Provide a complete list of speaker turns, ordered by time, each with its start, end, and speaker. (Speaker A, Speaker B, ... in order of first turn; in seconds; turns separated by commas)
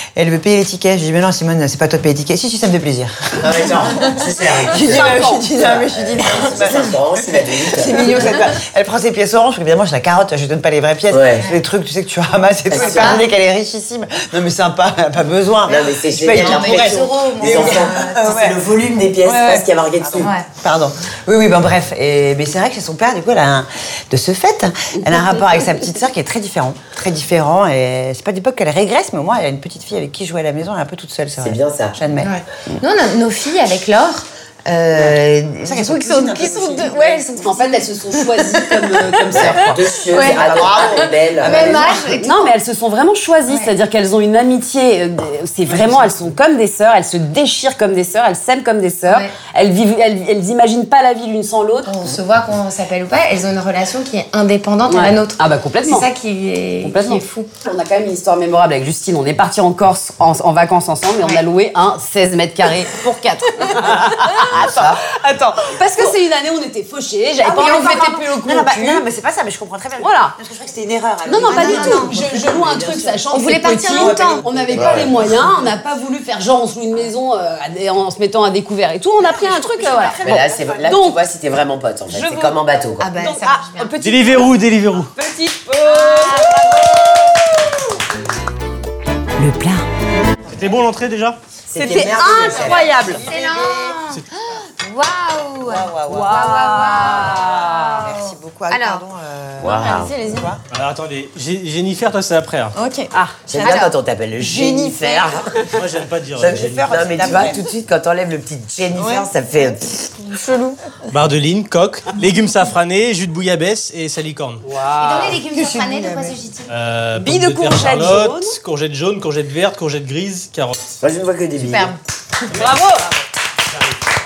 Speaker A: 0.1-18.6, Speaker B: 3.4-8.3, Speaker C: 4.8-5.5, Speaker B: 11.1-11.5, Speaker B: 12.7-13.2, Speaker D: 12.8-13.2, Speaker B: 15.7-20.3, Speaker D: 16.3-18.4, Speaker A: 19.2-32.8, Speaker D: 20.2-20.5, Speaker B: 31.4-32.0, Speaker D: 32.2-38.4, Speaker A: 35.0-37.2, Speaker C: 37.3-39.8, Speaker B: 39.3-41.8, Speaker A: 40.1-42.0, Speaker E: 40.2-40.4, Speaker D: 41.4-42.5, Speaker C: 42.2-51.9, Speaker A: 45.7-46.1, Speaker D: 49.1-49.3, Speaker D: 51.9-57.5, Speaker C: 54.9-56.1, Speaker C: 56.8-69.0, Speaker A: 63.6-65.0, Speaker B: 64.5-65.0, Speaker A: 65.6-66.1, Speaker A: 67.4-73.2, Speaker C: 70.0-70.3, Speaker C: 71.2-81.2, Speaker D: 71.5-72.1, Speaker D: 73.3-74.4, Speaker A: 73.9-75.7, Speaker B: 74.7-75.1, Speaker A: 79.2-80.9, Speaker B: 80.2-83.1, Speaker C: 82.1-82.6, Speaker D: 83.0-83.9, Speaker C: 83.2-87.8, Speaker F: 84.0-85.1, Speaker D: 85.8-87.1, Speaker C: 89.4-89.8, Speaker F: 90.5-91.4, Speaker B: 91.7-92.9, Speaker C: 91.8-93.2, Speaker A: 92.0-94.0, Speaker D: 93.2-99.0, Speaker A: 95.6-100.6, Speaker C: 96.1-98.1, Speaker B: 99.6-100.1, Speaker E: 99.7-100.5, Speaker F: 100.7-102.8, Speaker E: 102.7-103.9, Speaker C: 103.1-103.4, Speaker B: 103.5-105.8, Speaker D: 103.6-103.9, Speaker A: 104.4-105.1, Speaker E: 104.5-104.9, Speaker F: 105.7-107.0, Speaker B: 106.4-110.1, Speaker A: 106.4-107.6, Speaker E: 110.2-110.8, Speaker F: 111.1-114.6, Speaker C: 114.6-115.4, Speaker D: 115.0-116.7, Speaker E: 115.5-116.3, Speaker F: 116.7-121.0, Speaker C: 117.2-118.6, Speaker B: 121.0-121.9, Speaker D: 121.6-122.0, Speaker F: 122.5-122.8, Speaker C: 122.5-123.1